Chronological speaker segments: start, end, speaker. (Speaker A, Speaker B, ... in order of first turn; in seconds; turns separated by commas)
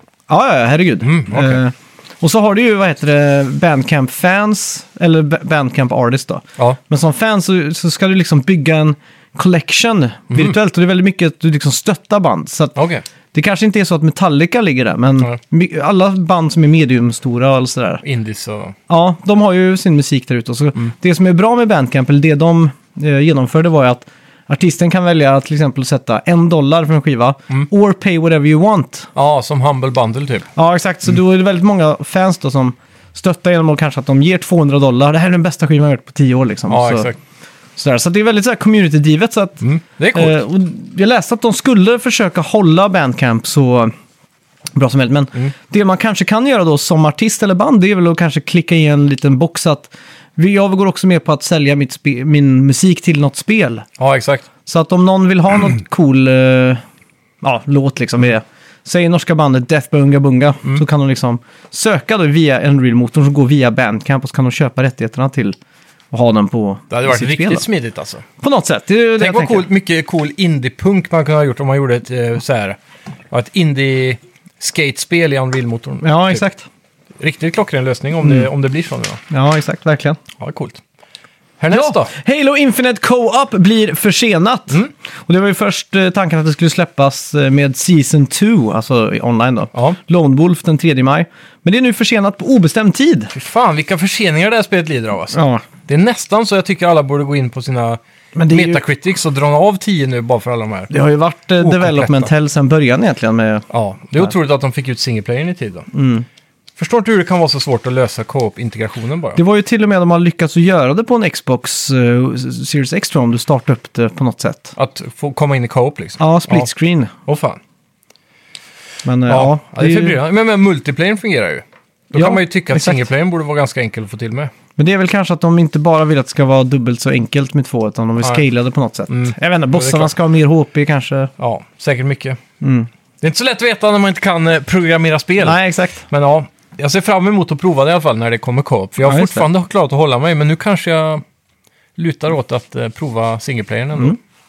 Speaker A: 0.3-12.8, Speaker B: 1.0-1.6, Speaker B: 12.8-13.0, Speaker A: 13.3-18.0, Speaker B: 18.0-18.8, Speaker A: 18.9-29.1, Speaker B: 29.1-30.5, Speaker A: 30.6-37.1, Speaker B: 36.7-37.2, Speaker A: 37.8-43.9, Speaker B: 39.6-40.4, Speaker A: 44.8-53.9, Speaker B: 54.0-54.5, Speaker A: 54.7-56.8, Speaker A: 57.4-65.6, Speaker A: 66.1-67.7, Speaker B: 66.9-68.2, Speaker A: 68.4-69.7, Speaker B: 69.2-72.8, Speaker B: 73.3-76.4, Speaker A: 76.0-76.7, Speaker B: 77.2-79.2, Speaker A: 78.2-78.5, Speaker A: 79.3-80.2, Speaker B: 80.4-80.8, Speaker B: 81.6-82.1, Speaker A: 81.7-93.3, Speaker B: 93.3-100.9, Speaker A: 95.3-95.6, Speaker A: 98.3-98.8, Speaker A: 100.9-103.7, Speaker B: 101.6-102.3, Speaker B: 103.7-105.9, Speaker A: 105.9-106.3, Speaker B: 106.8-109.4, Speaker A: 109.4-114.8, Speaker B: 114.8-116.7, Speaker A: 116.2-117.1, Speaker B: 117.3-117.6, Speaker A: 119.0-120.2, Speaker B: 119.3-124.5, Speaker A: 122.2-123.0, Speaker A: 124.8-131.3, Speaker B: 129.1-130.1, Speaker B: 131.4-132.4, Speaker A: 132.6-132.9, Speaker B: 133.2-141.2, Speaker A: 135.4-136.0, Speaker A: 139.0-139.5, Speaker B: 142.0-144.2